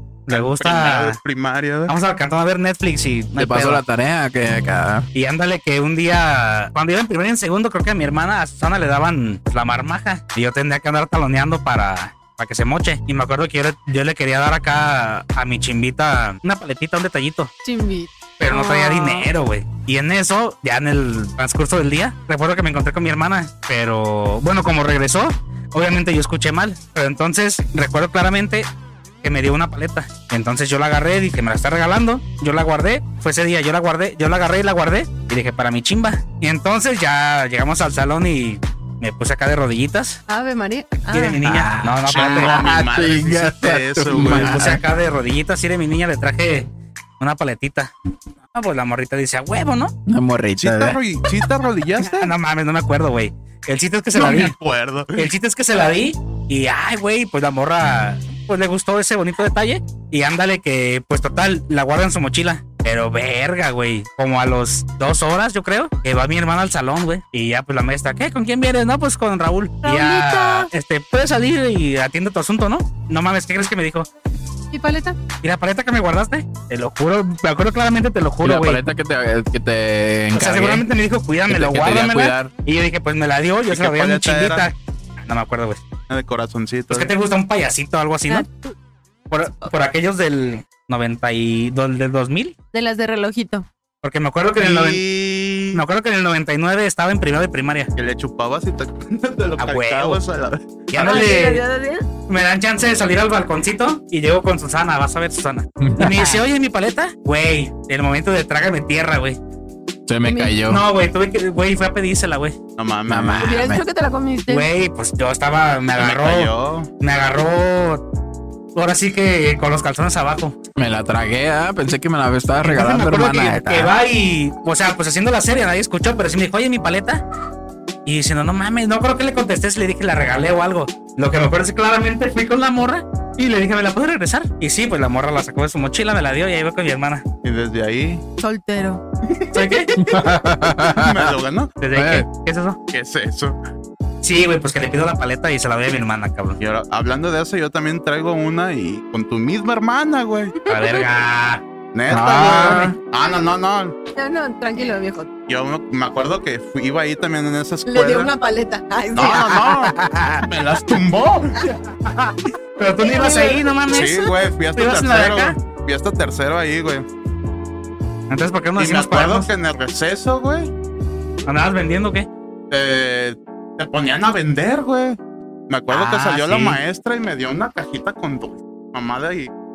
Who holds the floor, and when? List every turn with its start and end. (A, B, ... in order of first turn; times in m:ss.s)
0:00.3-0:01.2 A
0:00.3-0:01.9 B
0:01.9-0:03.8 A
0:03.4-0:05.1 C
0:05.1-0:17.5 A
0:17.6-0:19.3 D
0:18.4-0:28.7 A
0:29.2-0:40.2 A
0:40.3-0:41.4 D
0:41.1-0:42.6 A
0:41.4-0:44.8 C
0:42.1-0:44.7 B
0:44.2-0:46.7 A
0:47.2-0:47.9 A
0:48.5-0:49.9 A
0:50.1-0:51.0 C
0:50.6-0:52.3 B
0:52.0-0:54.5 A
0:54.1-0:55.3 B
0:55.1-1:14.1 A
1:09.8-1:10.7 D
1:14.7-1:15.2 D
1:15.4-1:18.8 A
1:18.4-1:20.8 C
1:20.3-1:25.8 A
1:21.5-1:22.5 C
1:23.7-1:24.7 B
1:26.1-1:27.1 B
1:26.9-1:28.5 A
1:28.3-1:28.7 D
1:29.3-1:32.5 A
1:32.7-1:33.7 D
1:34.0-1:35.0 A
1:34.6-1:35.8 B
1:35.7-1:37.9 A
1:38.0-1:41.3 B
1:39.6-1:40.2 A
1:40.9-1:41.6 A
1:40.9-1:42.1 D
1:42.3-1:49.4 A
1:45.8-1:46.1 C
1:46.0-1:46.4 D
1:50.1-1:50.8 C
1:50.2-1:50.6 D
1:50.6-1:52.6 A
1:52.8-1:53.7 B
1:53.1-1:53.8 C
1:53.4-1:54.7 D
1:54.5-1:58.0 A
1:56.0-1:56.9 B
1:58.7-2:00.6 A
2:00.8-2:03.9 C
2:02.6-2:07.2 A
2:08.0-2:17.2 A
2:17.4-2:18.2 B
2:18.4-2:19.0 D
2:19.4-2:21.7 B
2:19.5-2:20.0 A
2:19.9-2:21.3 C
2:21.8-2:22.8 A
2:21.9-2:22.3 C
2:22.9-2:23.6 B
2:24.2-2:26.6 A
2:26.6-2:30.6 B
2:30.6-2:31.0 D
2:30.7-2:31.6 A
2:31.9-2:33.9 B
2:32.1-2:33.0 C
2:32.4-2:32.9 A
2:34.1-2:35.3 D
2:35.5-2:38.3 B
2:37.9-2:40.0 D
2:39.1-2:41.7 B
2:41.9-2:44.2 A
2:43.0-2:44.3 D
2:43.9-2:47.0 B
2:44.7-2:45.6 A
2:48.3-2:49.5 A
2:48.8-2:50.7 B
2:51.4-2:52.3 A
2:52.7-2:55.2 B
2:55.7-2:59.5 B
2:55.9-2:56.8 A